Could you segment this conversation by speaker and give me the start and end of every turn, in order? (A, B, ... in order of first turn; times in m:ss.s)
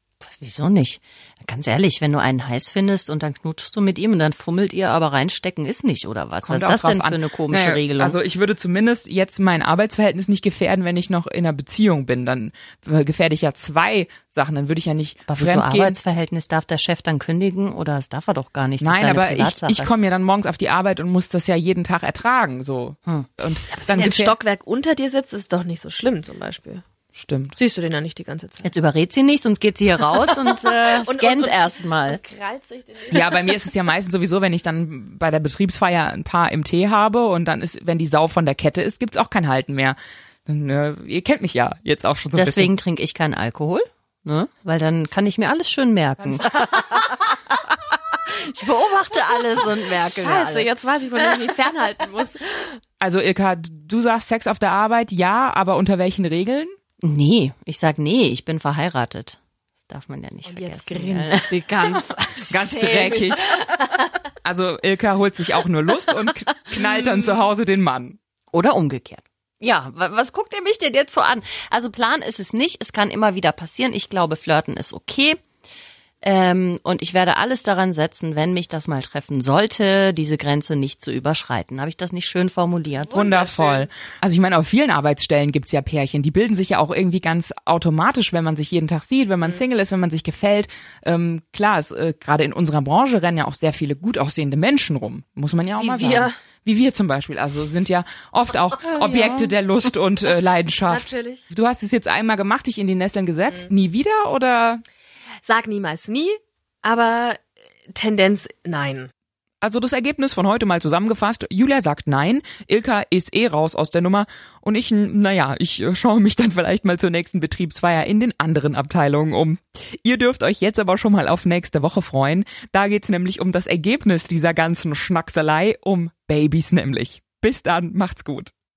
0:00.2-0:08.2 A
0:06.4-0:16.0 B
0:15.3-0:19.9 A
0:18.8-0:24.3 B
0:23.8-0:26.8 C
0:27.1-0:27.5 B
0:27.6-0:28.7 C
0:28.6-0:32.2 A
0:30.5-0:33.5 C
0:33.1-0:42.7 B
0:42.3-0:50.7 A
0:50.0-0:52.8 C
0:53.0-0:56.7 B
0:57.0-1:02.1 A
1:00.4-1:04.1 C
1:02.5-1:03.6 B
1:04.4-1:08.2 B
1:08.5-1:15.4 A
1:16.2-1:23.2 A
1:23.0-1:23.9 C
1:23.1-1:44.8 B
1:35.8-1:36.3 C
1:38.8-1:39.5 A
1:40.8-1:41.4 C
1:45.4-1:49.1 C
1:49.6-2:08.5 B